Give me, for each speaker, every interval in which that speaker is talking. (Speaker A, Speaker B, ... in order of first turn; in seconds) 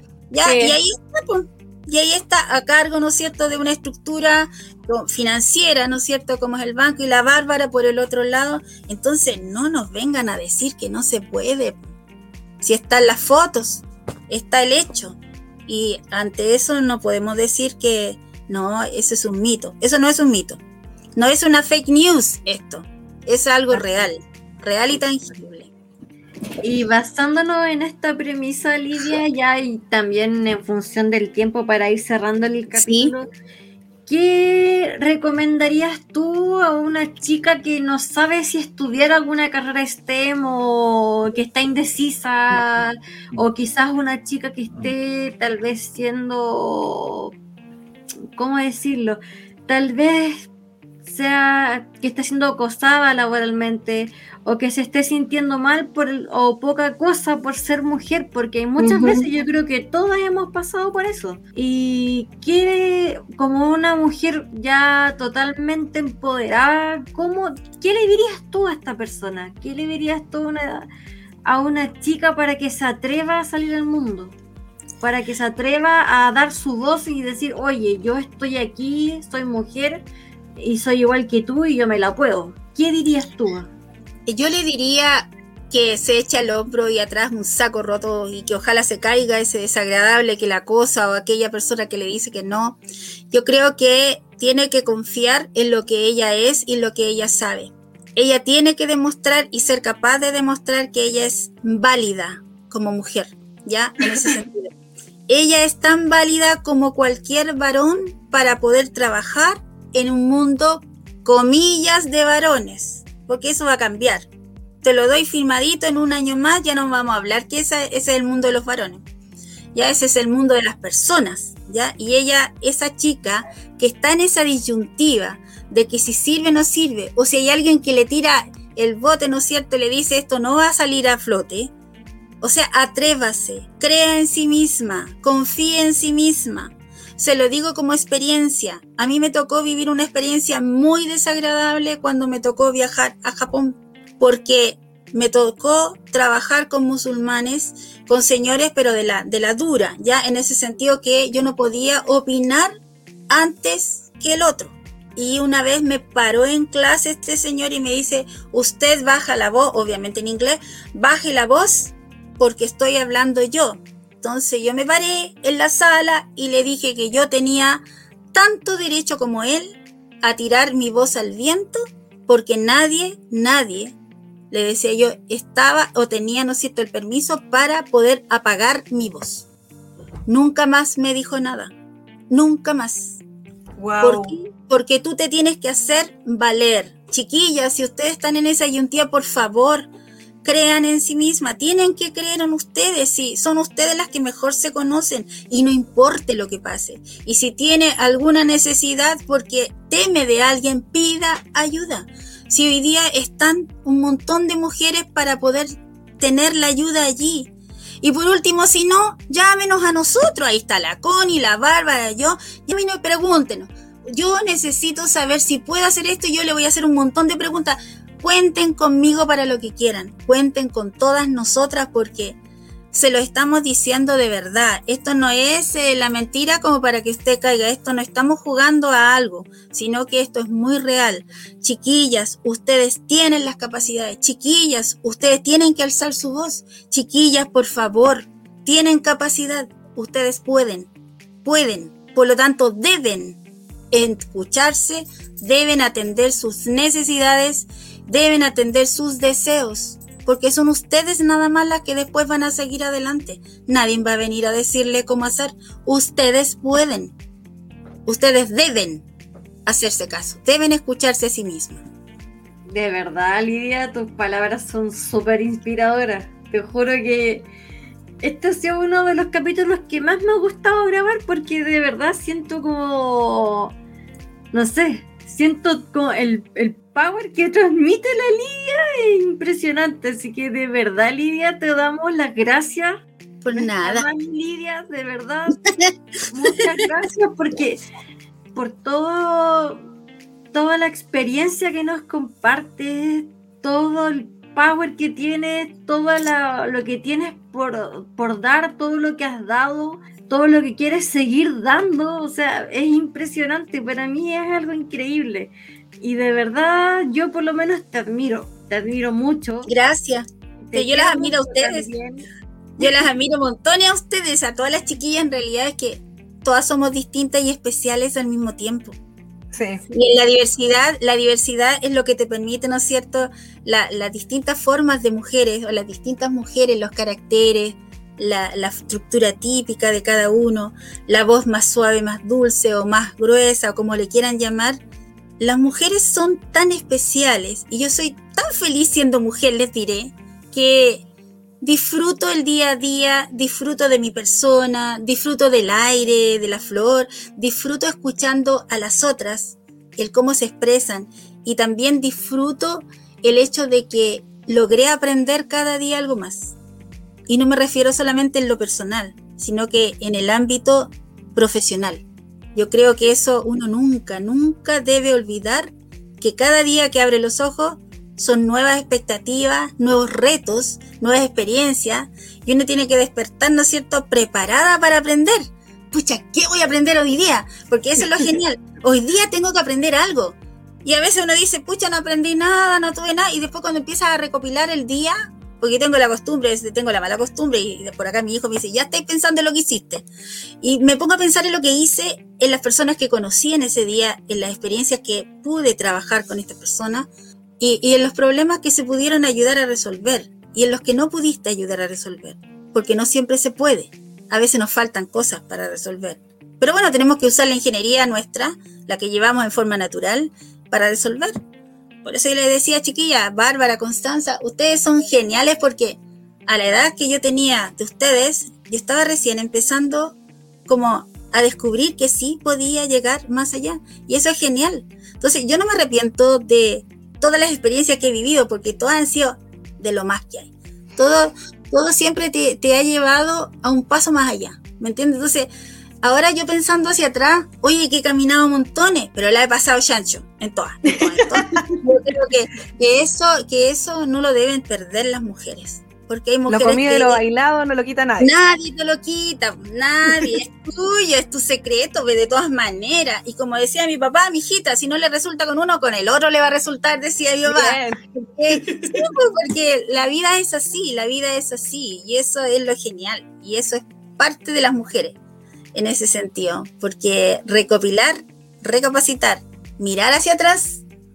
Speaker A: 0.3-11.8, 12.6-20.6, 21.1-25.7, 32.7-33.1, 84.3-92.8, 93.3-104.7, 105.3-114.3, 114.8-119.0, 119.7-131.7, 132.4-152.7, 153.3-174.0, 174.5-179.5, 180.3-181.7, 182.3-183.2, 184.0-189.9, 190.4-207.5, 208.0-222.4, 222.9-240.9, 241.4-243.4, 243.9-257.1, 258.1-259.1, 259.7-261.8, 283.4-284.1, 309.7-311.9, 312.8-319.0, 319.9-334.8, 335.4-341.1, 341.6-356.6, 357.3-390.1, 390.6-397.1, 397.6-411.3, 412.0-435.5, 436.0-447.2, 448.2-465.2, 465.8-470.8
Speaker B: 0.5-0.8, 58.8-59.2, 183.8-184.4, 319.5-319.8, 440.9-441.8, 446.5-448.3, 457.5-459.0
Speaker C: 26.6-33.3, 34.1-47.3, 48.4-50.5, 51.0-70.9, 71.5-74.4, 75.0-80.0, 80.6-83.7, 262.7-267.5, 268.2-273.8, 274.5-283.0, 283.5-285.6, 286.3-287.8, 288.6-289.8, 290.5-309.7, 310.7-312.3